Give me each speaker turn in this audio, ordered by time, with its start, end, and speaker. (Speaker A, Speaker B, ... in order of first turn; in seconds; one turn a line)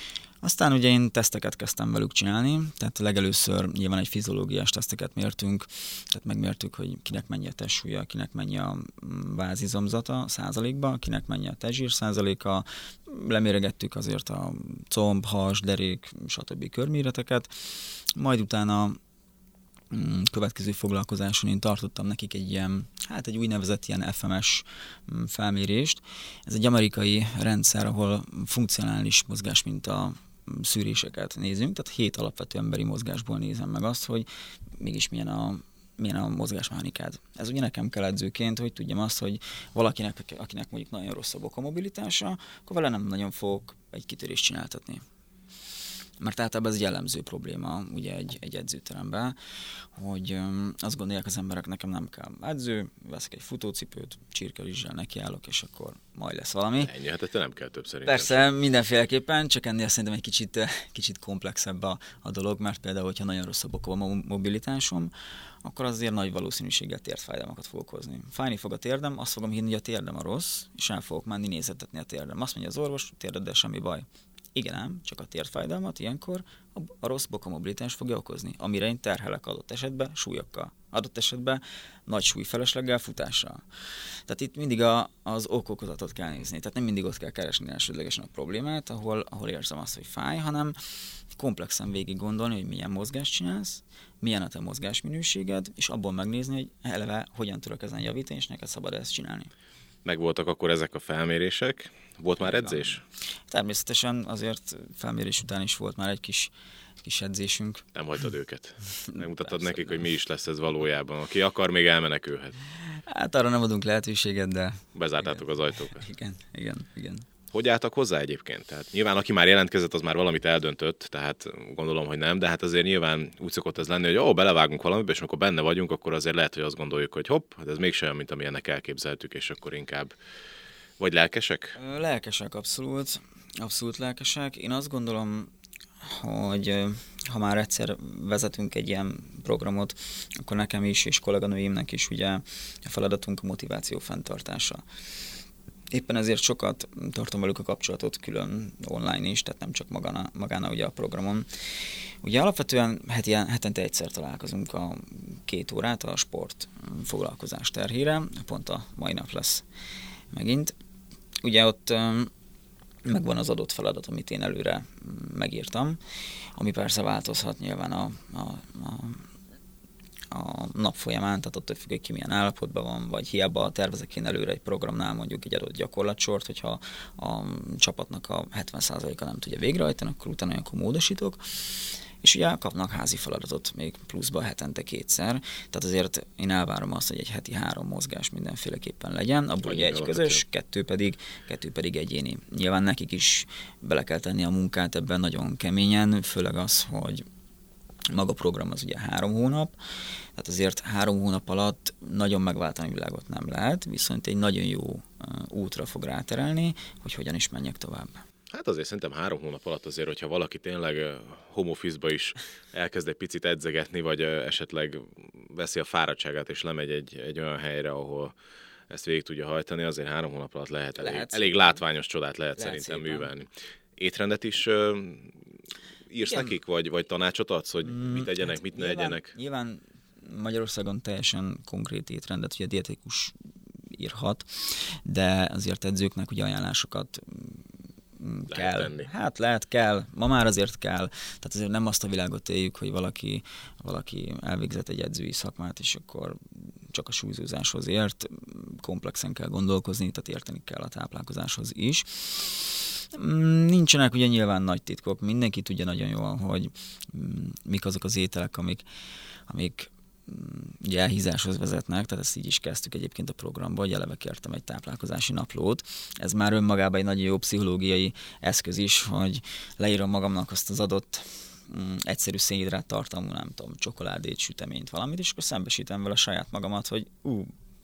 Speaker A: 0.4-19.0
Speaker A: 19.9-34.3
Speaker A: 34.8-45.0
Speaker A: 46.2-49.4
Speaker A: 50.0-56.9
Speaker B: 56.8-58.5
Speaker A: 58.0-65.1
Speaker A: 65.6-83.6
Speaker A: 84.3-90.8
Speaker A: 91.3-99.5
Speaker B: 100.0-103.0
Speaker A: 102.4-103.0
Speaker A: 103.5-107.9
Speaker B: 107.9-112.6
Speaker A: 109.0-110.1
Speaker A: 113.1-117.3
Speaker B: 115.0-116.0
Speaker B: 117.5-130.2
Speaker B: 131.0-131.8
Speaker A: 131.8-135.5
Speaker A: 136.0-144.8
Speaker A: 145.9-151.7
Speaker A: 152.2-159.6
Speaker A: 160.3-160.7
Speaker A: 161.4-162.3
Speaker A: 163.1-166.0
Speaker A: 166.6-169.2
Speaker A: 170.3-197.2
Speaker B: 189.6-190.4
Speaker A: 198.1-199.8
Speaker A: 200.4-208.2
Speaker B: 208.5-218.3
Speaker B: 218.9-225.4
Speaker A: 221.0-221.7
Speaker A: 222.6-223.3
Speaker B: 226.1-229.3
Speaker A: 227.8-233.3
Speaker A: 233.9-237.6
Speaker A: 238.2-246.4
Speaker B: 238.5-239.1
Speaker A: 246.9-258.8
Speaker A: 259.5-277.5